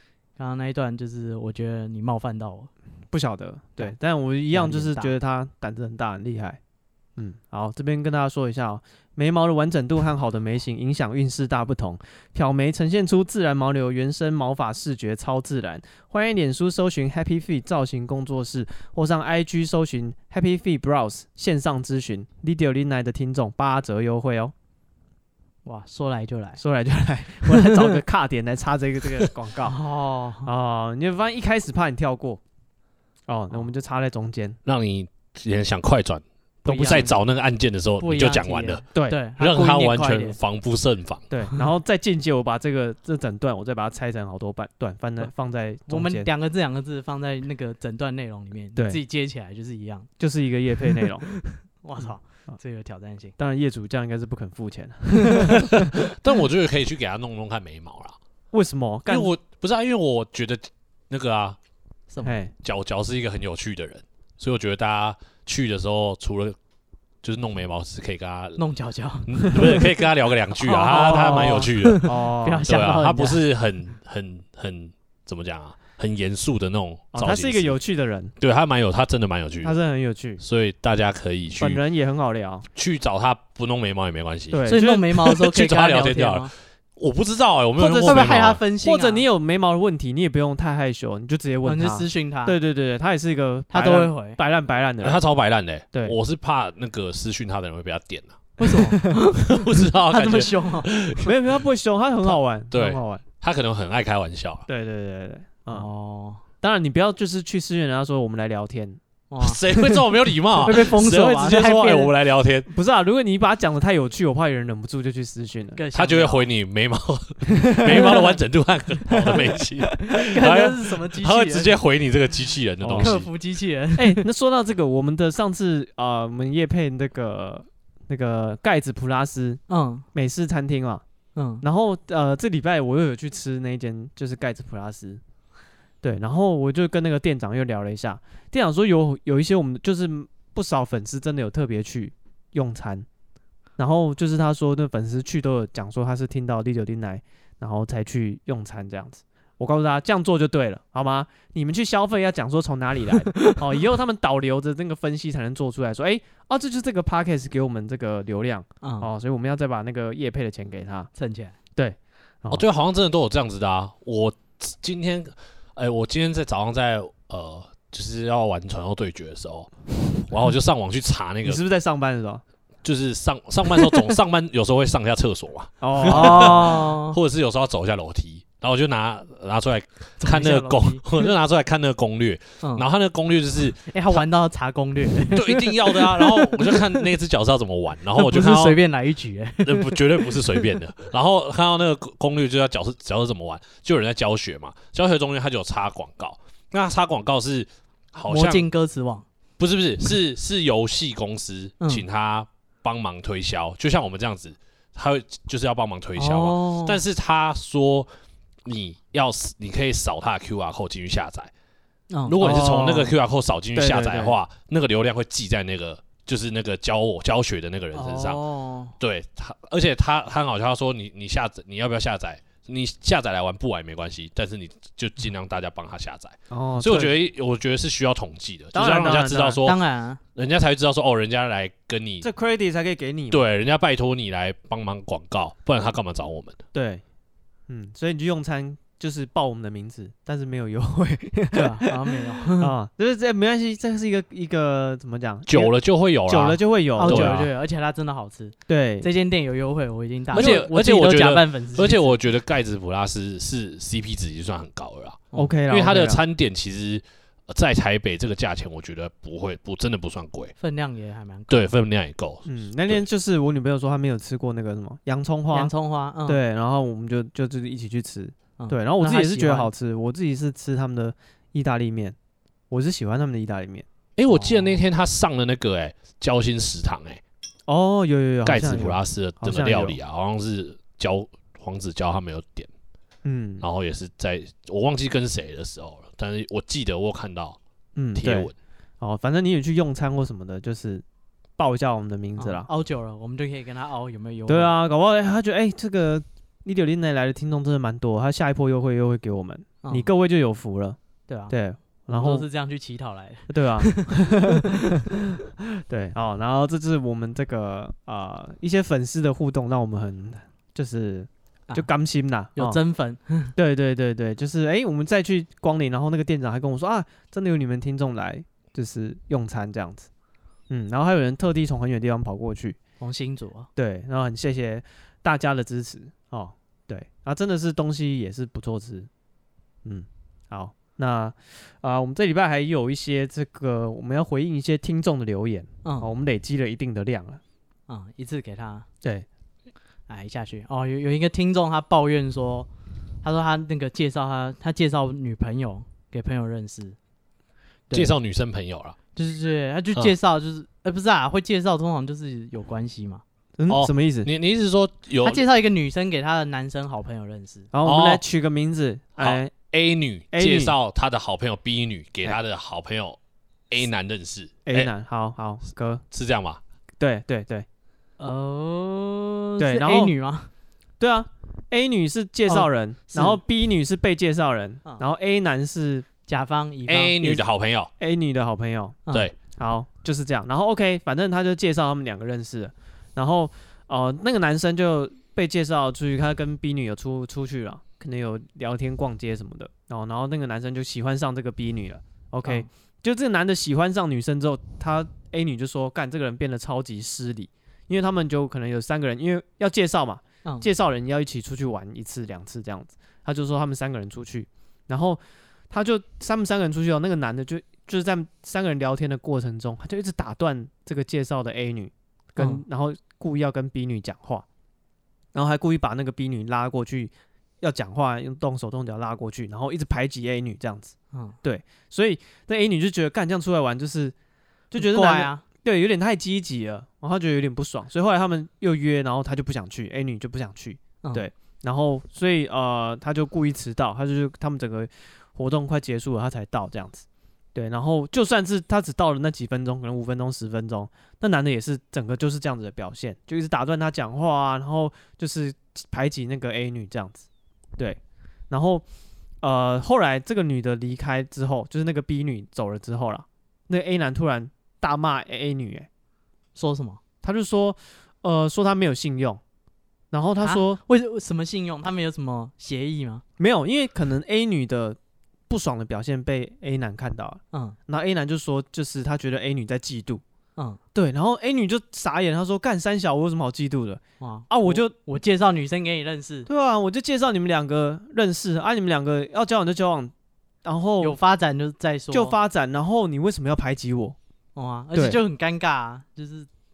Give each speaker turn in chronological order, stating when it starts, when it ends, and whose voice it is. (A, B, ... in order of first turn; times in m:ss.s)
0:00.4-0:02.7 A
0:03.1-0:06.6 B
0:04.5-0:05.1 A
0:07.2-0:24.5 B
0:25.6-0:26.6 A
0:26.6-0:29.8 B
0:27.5-0:27.9 A
0:29.6-0:30.5 A
0:30.4-0:32.4 B
0:33.3-0:34.6 B
0:34.6-0:36.2 C
0:36.6-0:37.1 B
0:36.6-0:37.2 A
0:36.8-0:38.9 C
0:38.0-0:40.4 A
0:39.4-0:41.2 C
0:41.3-0:46.3 B
0:45.9-0:50.1 A
0:48.8-0:49.0 B
0:50.2-0:51.3 B
0:50.8-0:53.4 A
0:52.0-0:52.6 B
0:53.4-0:55.9 B
0:55.6-0:58.2 C
0:58.5-0:59.3 B
0:59.1-1:01.6 C
1:02.1-1:02.4 A
1:02.2-1:02.5 B
1:02.6-1:06.6 C
1:07.2-1:08.6 C
1:08.6-1:09.9 A
1:09.3-1:12.1 C
1:10.6-1:13.4 A
1:11.2-1:12.7 B
1:12.6-1:17.8 C
1:17.1-1:18.3 B
1:18.4-1:19.8 C
1:19.6-1:20.4 B
1:20.4-1:21.8 C
1:21.6-1:22.7 B
1:22.8-1:28.6 C
1:24.5-1:25.0 B
1:24.7-1:26.5 A
1:27.8-1:35.2 B
1:28.0-1:29.2 A
1:31.6-1:32.6 A
1:33.7-1:34.4 A
1:35.0-1:38.4 C
1:38.6-1:40.9 A
1:38.6-1:39.2 B
1:39.4-1:41.4 C
1:41.2-1:43.2 B
1:42.7-1:44.7 C
1:44.7-1:45.9 B
1:45.7-1:46.4 A
1:46.6-1:49.0 B
1:49.3-1:50.0 A
1:49.4-1:52.7 C
1:50.6-1:52.1 A
1:52.7-1:55.8 B
1:55.8-1:56.5 A
1:55.9-2:03.3 C
1:57.5-1:58.3 B
1:57.9-1:58.4 A
1:59.1-1:59.4 B
2:00.0-2:01.8 A
2:02.8-2:03.1 B
2:03.0-2:04.2 A
2:04.0-2:09.6 B
2:09.7-2:10.0 A
2:10.1-2:11.0 B
2:11.4-2:11.6 A
2:11.6-2:15.2 B
2:16.0-2:23.1 B
2:23.8-2:41.1 B
2:38.8-2:39.1 A
2:41.2-2:41.6 A
2:41.8-2:42.6 B
2:42.5-2:51.6 C
2:51.4-2:52.4 B
2:52.8-3:04.3 C
2:55.8-2:56.9 B
2:56.0-2:57.2 A
3:00.2-3:01.3 A
3:03.9-3:07.1 A
3:05.2-3:08.8 C
3:08.2-3:10.6 A
3:09.6-3:18.7 C
3:18.3-3:19.2 A
3:19.6-3:28.1 C
3:26.2-3:27.0 A
3:28.6-3:31.5 C
3:32.1-3:32.4 A
3:32.3-3:38.4 C
3:32.4-3:33.1 B
3:33.8-3:34.4 B
3:37.9-3:38.9 A
3:39.0-3:49.8 C
3:46.5-3:47.2 B
3:48.7-3:49.6 B
3:49.6-3:50.2 A
3:50.4-3:52.3 C
3:52.2-3:53.4 B
3:53.3-3:56.6 C
3:56.7-3:57.0 B
3:57.7-4:05.7 B
4:01.5-4:02.7 A
4:05.5-4:07.5 C
4:06.3-4:07.4 B
4:07.0-4:12.2 A
4:08.7-4:09.1 B
4:10.3-4:10.7 B
4:10.3-4:20.5 C
4:15.3-4:16.2 B
4:20.6-4:21.7 A
4:21.5-4:23.0 C
4:22.5-4:25.7 B
4:25.5-4:26.4 A
4:26.3-4:32.2 B
4:28.6-4:29.7 A
4:32.7-4:33.9 B
4:34.2-4:37.2 C
4:34.3-4:34.8 A
4:37.7-4:40.0 B
4:38.4-4:42.7 C
4:43.2-4:43.6 B
4:43.6-4:47.6 C
4:48.0-4:51.0 B
4:48.2-4:48.5 C
4:51.6-4:52.7 B
4:52.4-4:54.7 A
4:54.5-5:01.0 B
4:59.8-5:00.1 A
5:01.3-5:01.5 A
5:01.5-5:02.5 B
5:02.1-5:04.9 A
5:03.5-5:05.2 B
5:05.8-5:12.8 B
5:12.6-5:13.5 A
5:13.6-5:20.1 B
5:20.7-5:22.8 B
5:23.0-5:23.7 A
5:23.8-5:29.1 B
5:29.8-5:37.4 B
5:35.8-5:36.1 A
5:37.9-5:38.9 A
5:40.1-5:42.7 A
5:43.2-5:47.0 A
5:47.9-5:49.0 C
5:49.2-5:53.2 A
5:53.6-5:54.3 B
5:53.7-5:55.4 C
5:55.2-5:57.7 A
5:57.7-5:59.5 B
5:57.8-5:58.2 C
5:59.2-6:03.2 C
6:00.3-6:00.8 B
6:03.7-6:04.9 C
6:04.7-6:06.0 B
6:06.1-6:06.6 C
6:07.0-6:07.7 B
6:08.2-6:10.5 A
6:09.6-6:10.1 B
6:11.0-6:16.1 B
6:12.5-6:13.4 A
6:16.3-6:17.2 A
6:16.9-6:17.9 C
6:18.0-6:54.5 B
6:52.4-6:52.6 A
6:55.3-7:04.2 B
7:04.7-7:27.3 B
7:04.8-7:05.4 A
7:11.0-7:11.3 A
7:28.5-7:28.8 B
7:29.4-7:35.9 B
7:36.6-7:37.0 A
7:37.2-7:39.4 B
7:40.1-7:40.8 B
7:40.4-7:43.2 A
7:43.4-7:45.0 B
7:45.5-7:50.2 B
7:50.9-7:54.9 B
7:54.2-7:56.5 A
7:56.5-8:00.1 B
8:00.6-8:01.2 B
8:01.0-8:02.4 A
8:02.1-8:04.2 B
8:04.6-8:06.5 A
8:04.9-8:05.2 B